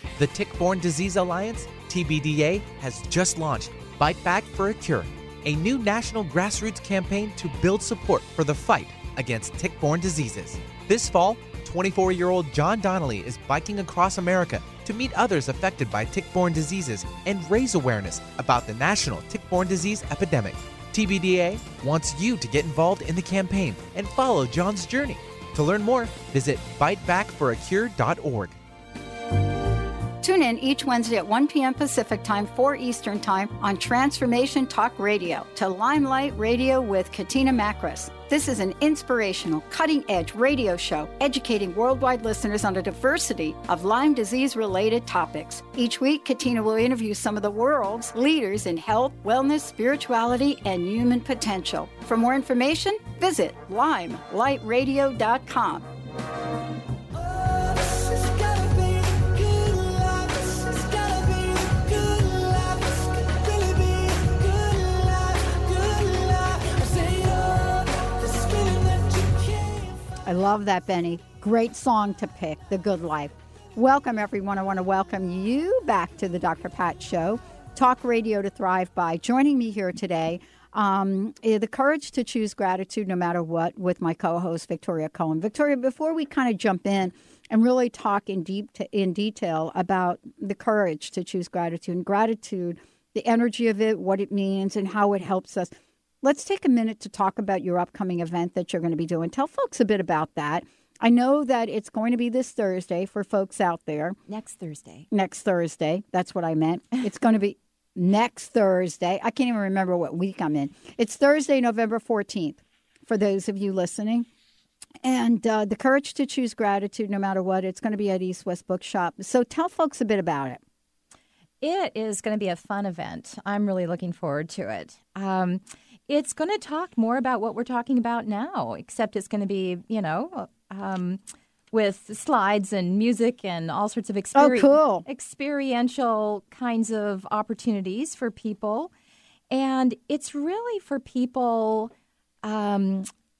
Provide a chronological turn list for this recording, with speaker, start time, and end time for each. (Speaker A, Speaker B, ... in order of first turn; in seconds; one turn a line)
Speaker A: 0.2-28.5
Speaker B: 30.2-55.9
Speaker B: 70.2-104.2
Speaker C: 104.3-105.1
Speaker B: 105.1-114.3
Speaker B: 115.0-120.6
Speaker C: 121.6-131.2
Speaker C: 131.7-138.9
Speaker B: 134.3-135.1
Speaker C: 139.5-141.9
Speaker C: 142.4-143.1